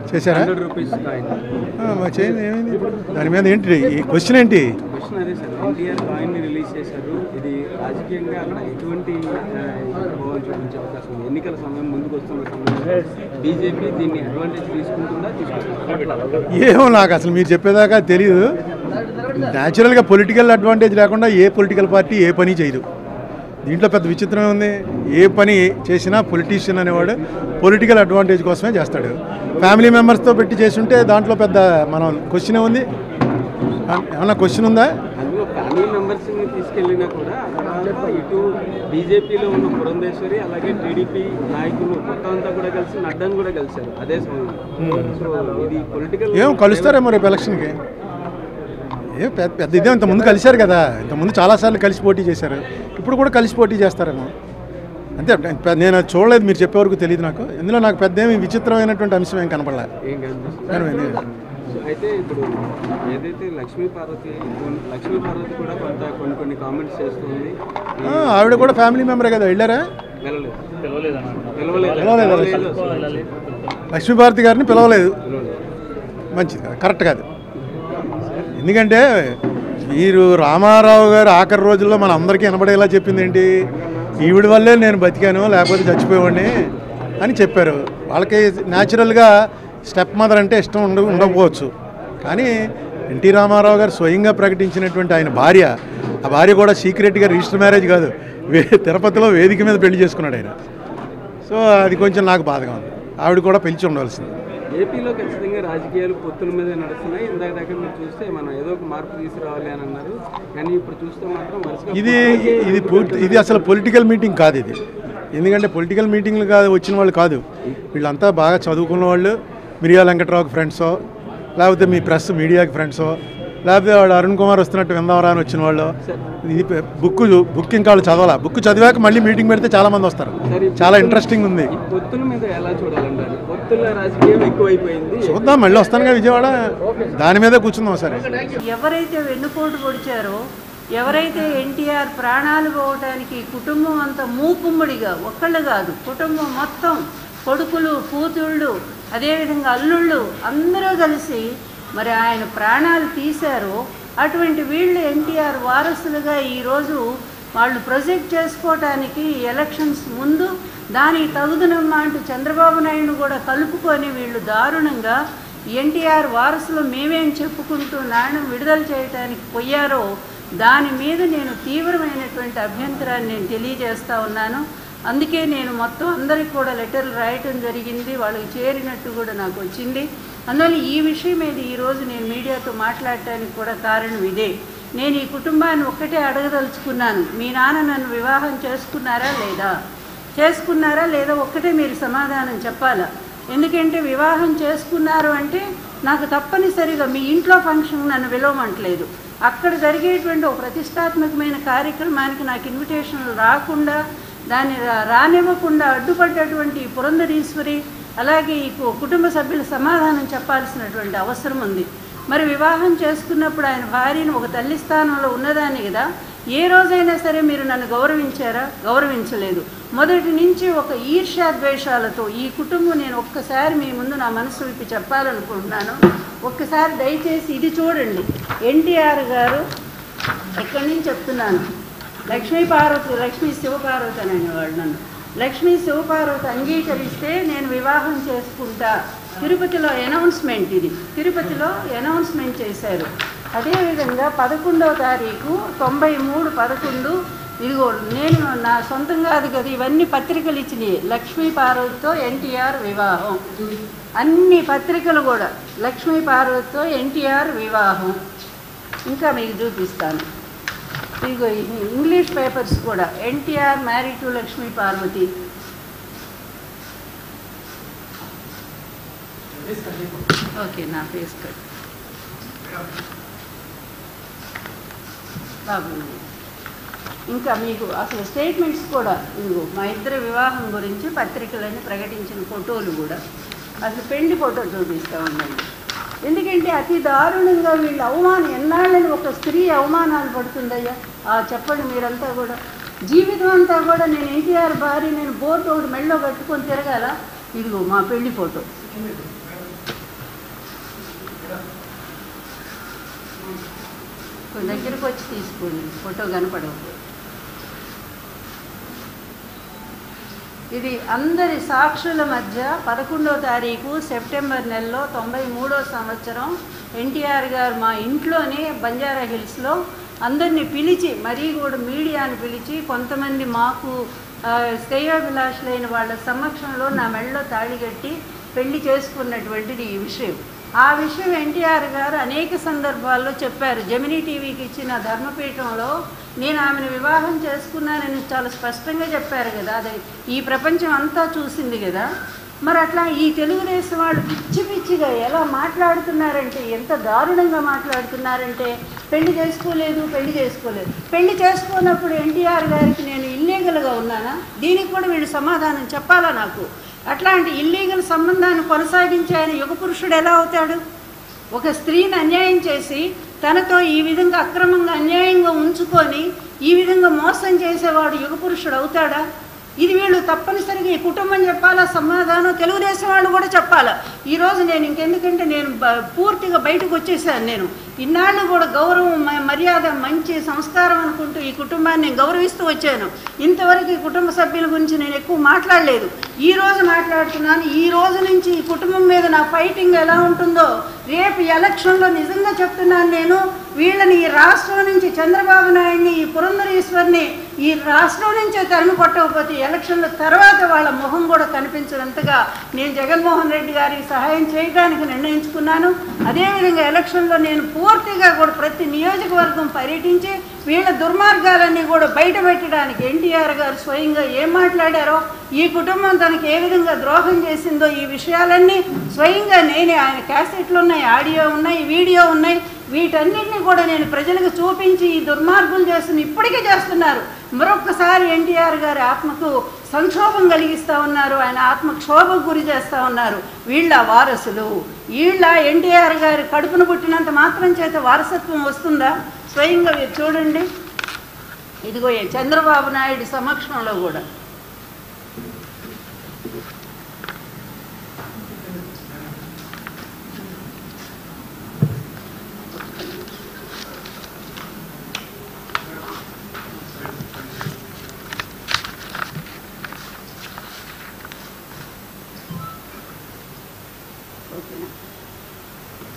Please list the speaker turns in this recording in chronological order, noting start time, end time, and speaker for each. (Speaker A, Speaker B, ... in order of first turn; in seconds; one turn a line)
Speaker A: 0.1-0.5
Speaker B: 0.3-1.4
Speaker A: 1.8-4.7
Speaker B: 4.9-16.4
Speaker A: 16.5-18.5
Speaker A: 19.4-22.8
Speaker A: 23.6-32.9
Speaker A: 33.9-34.9
Speaker B: 35.2-47.0
Speaker A: 44.8-45.2
Speaker A: 46.3-47.8
Speaker A: 49.1-54.3
Speaker A: 55.2-59.9
Speaker B: 60.0-62.5
Speaker A: 60.7-61.2
Speaker B: 63.1-68.7
Speaker A: 68.0-69.8
Speaker B: 70.2-73.3
Speaker A: 71.9-72.7
Speaker A: 73.9-75.2
Speaker B: 75.3-75.6
Speaker A: 76.3-77.2
Speaker A: 78.6-79.4
Speaker A: 79.9-83.5
Speaker A: 84.2-86.5
Speaker A: 87.2-89.3
Speaker A: 89.9-91.7
Speaker A: 92.2-92.5
Speaker A: 93.1-95.7
Speaker A: 96.2-100.5
Speaker A: 101.5-104.3
Speaker B: 104.7-113.7
Speaker A: 111.9-114.8
Speaker A: 115.3-117.4
Speaker A: 117.9-121.0
Speaker A: 121.6-131.7
Speaker B: 130.5-135.5
Speaker A: 135.2-138.3
Speaker C: 138.6-140.4
Speaker C: 140.9-157.1
Speaker C: 157.6-165.2
Speaker C: 165.8-170.1
Speaker C: 170.6-189.7
Speaker C: 190.4-204.0
Speaker C: 204.5-229.7
Speaker C: 230.6-231.7
Speaker C: 232.3-253.5
Speaker C: 254.2-258.2
Speaker C: 259.1-260.2
Speaker C: 261.2-265.3
Speaker C: 270.5-271.6
Speaker C: 275.7-276.2
Speaker C: 277.3-283.2
Speaker C: 283.8-285.7
Speaker C: 286.2-298.7
Speaker C: 304.5-307.0
Speaker C: 310.7-342.1
Speaker C: 342.6-360.8
Speaker C: 361.5-369.2
Speaker C: 369.8-440.7
Speaker C: 441.9-444.2
Speaker C: 464.5-464.9